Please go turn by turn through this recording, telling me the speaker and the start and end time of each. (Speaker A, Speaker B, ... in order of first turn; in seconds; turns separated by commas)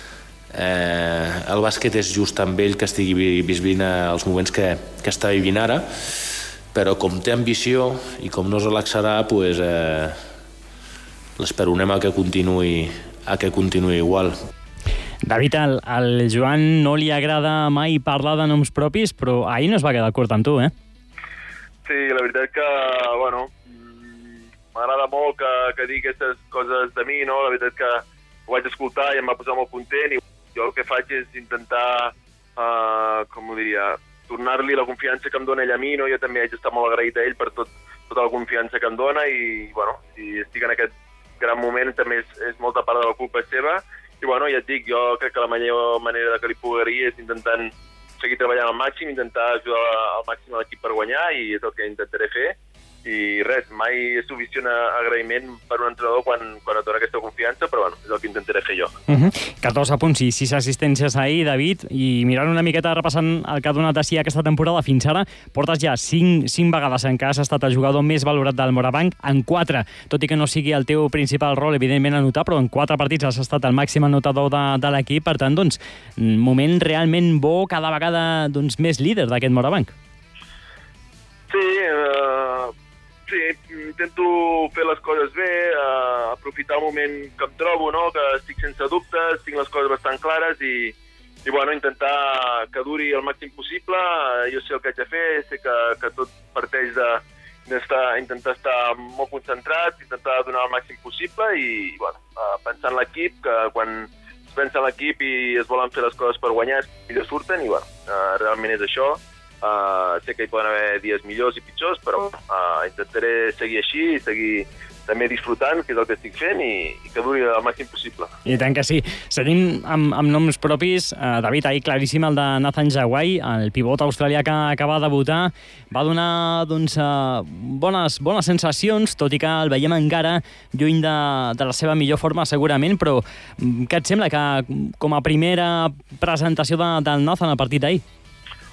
Speaker A: 0.5-10.2, Speaker A: 11.4-14.4, Speaker B: 15.2-20.7, Speaker C: 21.9-58.9, Speaker B: 59.1-79.9, Speaker C: 81.5-82.7, Speaker C: 83.3-90.9, Speaker C: 91.5-118.3, Speaker B: 118.5-138.0